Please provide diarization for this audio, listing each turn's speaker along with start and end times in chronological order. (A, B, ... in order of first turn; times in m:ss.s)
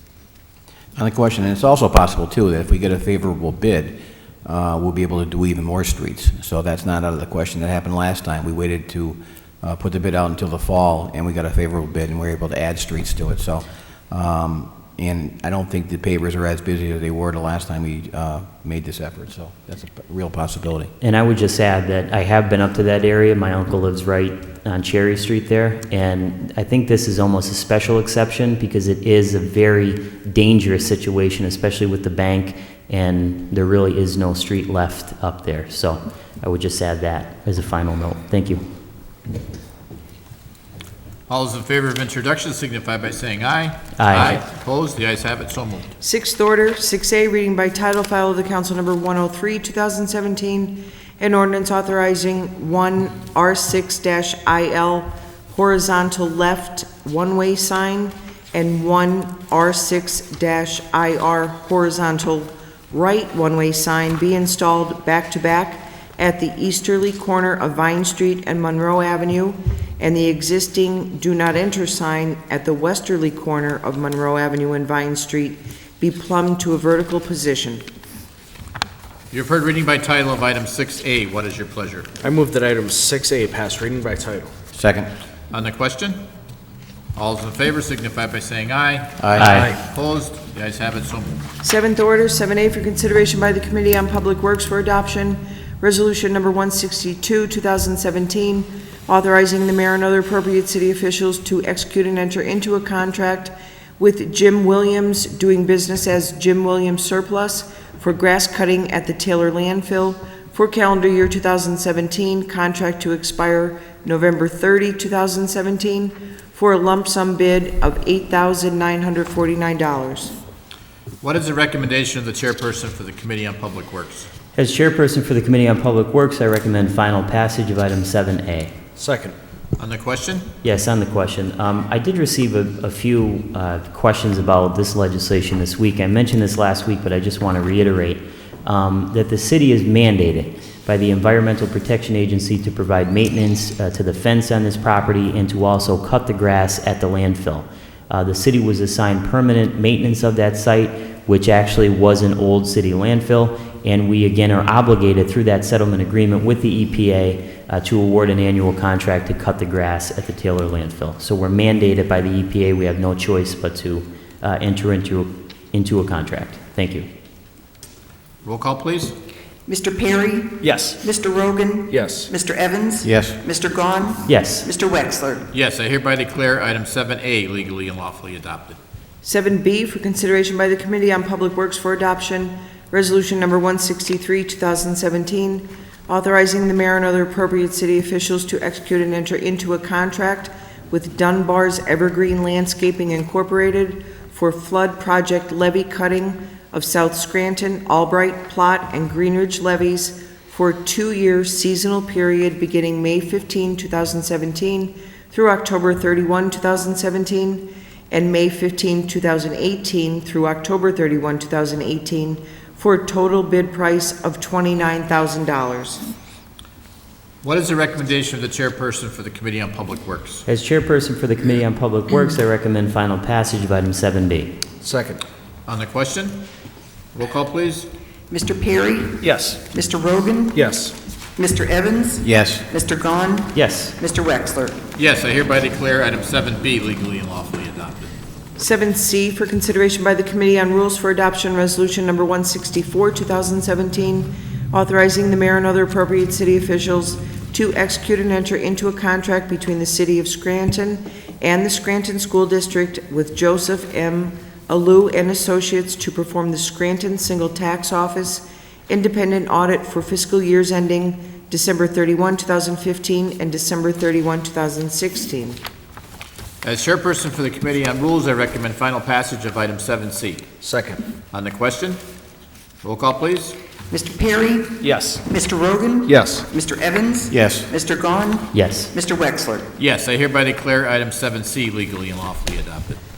0:01.0-0:20.9 A
0:21.0-0:38.6 B
0:41.3-0:45.9 C
0:44.0-0:44.4 B
0:46.0-1:17.8 D
1:19.3-1:22.1 C
1:22.2-1:24.5 E
1:24.7-1:25.1 A
1:25.5-1:26.2 C
1:27.2-1:31.4 C
1:29.2-1:29.6 A
1:29.4-1:29.7 B
1:31.6-2:00.3 D
2:01.2-2:04.3 C
2:04.6-2:08.7 B
2:09.0-2:09.4 E
2:09.8-2:10.5 C
2:10.6-2:47.1 B
2:48.4-2:49.1 C
2:49.7-2:55.4 F
2:50.6-2:51.0 E
2:51.9-2:52.3 E
2:53.0-2:53.4 A
2:54.2-2:54.7 B
2:55.5-2:58.8 C
2:59.2-3:36.0 D
3:37.4-3:40.4 C
3:40.5-3:44.6 B
3:44.8-3:45.2 E
3:45.6-3:46.4 C
3:47.1-3:47.9 C
3:48.3-3:50.6 F
3:49.2-3:49.6 E
3:50.5-3:50.9 E
3:51.4-3:54.8 F
3:52.2-3:52.6 A
3:53.5-3:53.9 B
3:55.0-3:58.1 C
3:58.6-4:25.6 D
4:26.6-4:30.5 C
4:30.6-4:31.0 E
4:31.3-4:32.0 C
4:32.8-4:33.6 C
4:33.9-4:39.7 F
4:34.8-4:35.2 E
4:36.0-4:36.4 E
4:37.3-4:37.7 A
4:38.5-4:38.9 B
4:39.8-4:43.0 C